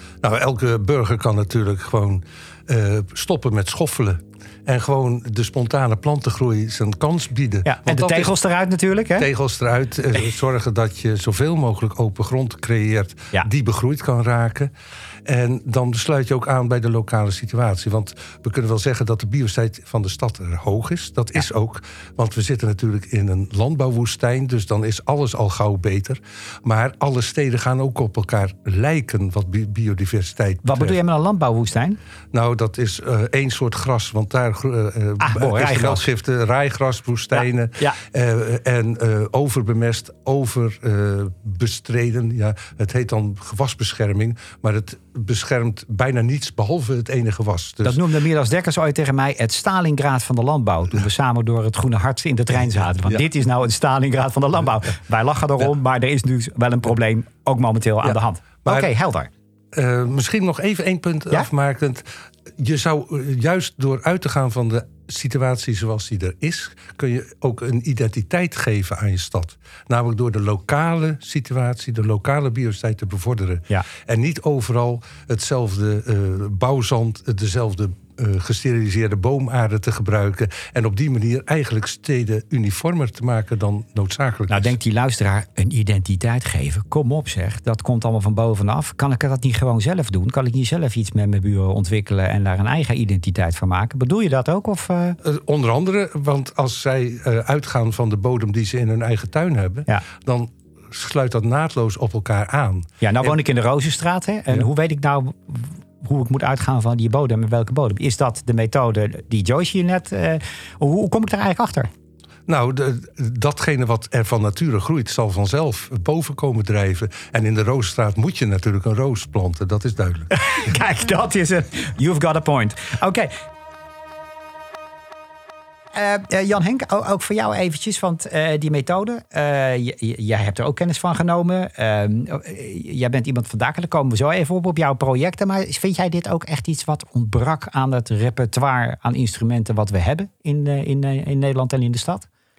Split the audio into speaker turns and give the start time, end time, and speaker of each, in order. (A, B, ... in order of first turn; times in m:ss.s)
0:00.2-0:08.3 A
0:07.6-0:09.3 B
0:09.2-0:14.7 A
0:15.2-0:31.0 A
0:30.6-0:32.0 B
0:32.3-0:48.0 A
0:35.2-0:36.1 B
0:37.3-0:38.0 B
0:47.8-0:59.3 B
0:58.0-0:58.9 A
0:59.7-1:24.8 A
1:24.5-1:35.2 B
1:35.2-1:43.4 A
1:43.0-1:51.9 B
1:52.5-2:00.3 A
2:00.3-2:03.4 B
2:05.9-2:22.3 B